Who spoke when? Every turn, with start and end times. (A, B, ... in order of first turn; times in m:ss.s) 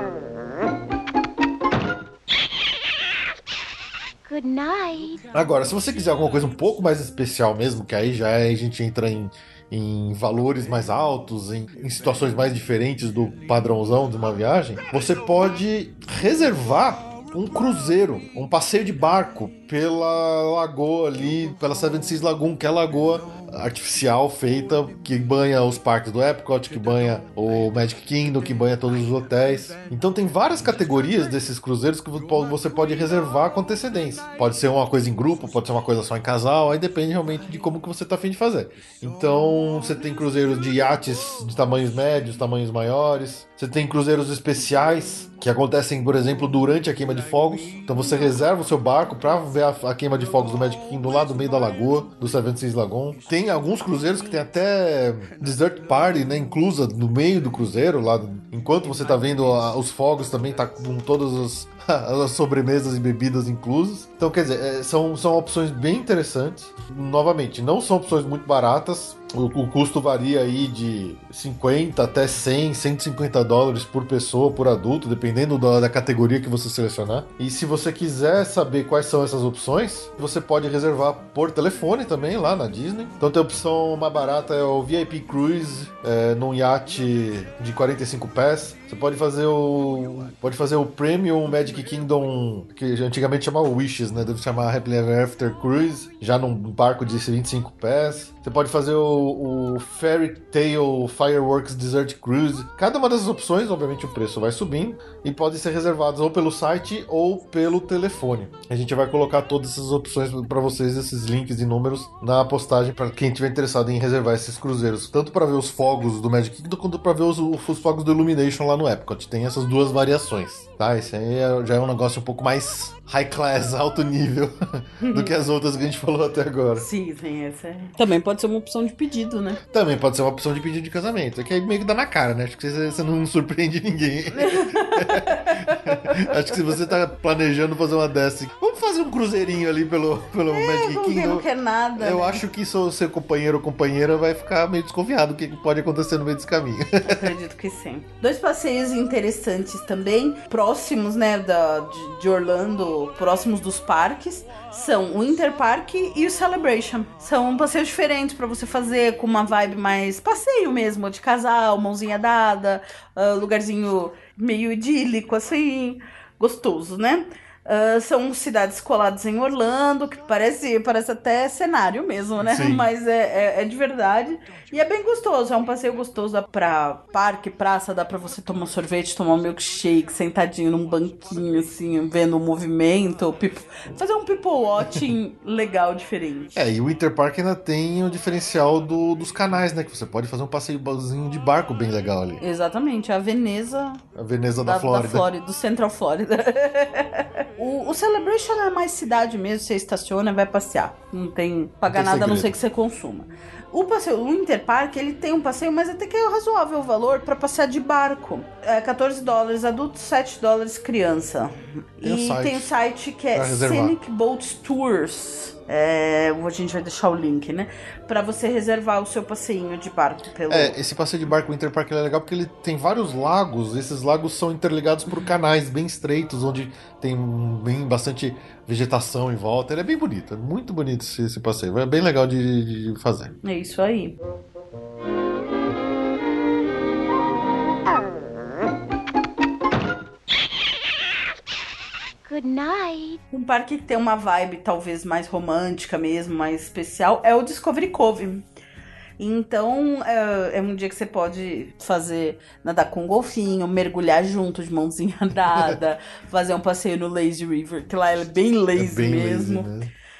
0:04.2-0:05.2 A
0:05.3-2:06.9 B
2:05.0-2:05.3 C
2:06.8-2:09.6 C
2:09.7-2:21.4 B
2:14.3-2:16.3 C
2:20.5-2:22.4 C
2:22.0-2:27.3 B
2:27.0-3:06.5 C
2:52.4-2:52.9 B
3:06.5-3:12.4 B
3:12.4-3:14.0 C
3:14.1-3:15.3 B
3:14.6-3:40.8 C
3:21.9-3:22.6 B
3:32.0-3:32.7 B
3:33.3-3:34.0 B
3:40.5-3:53.3 B
3:53.4-3:54.2 C
4:02.2-4:03.2 A
4:03.3-4:08.4 C
4:09.2-4:19.7 C
4:18.7-4:19.9 B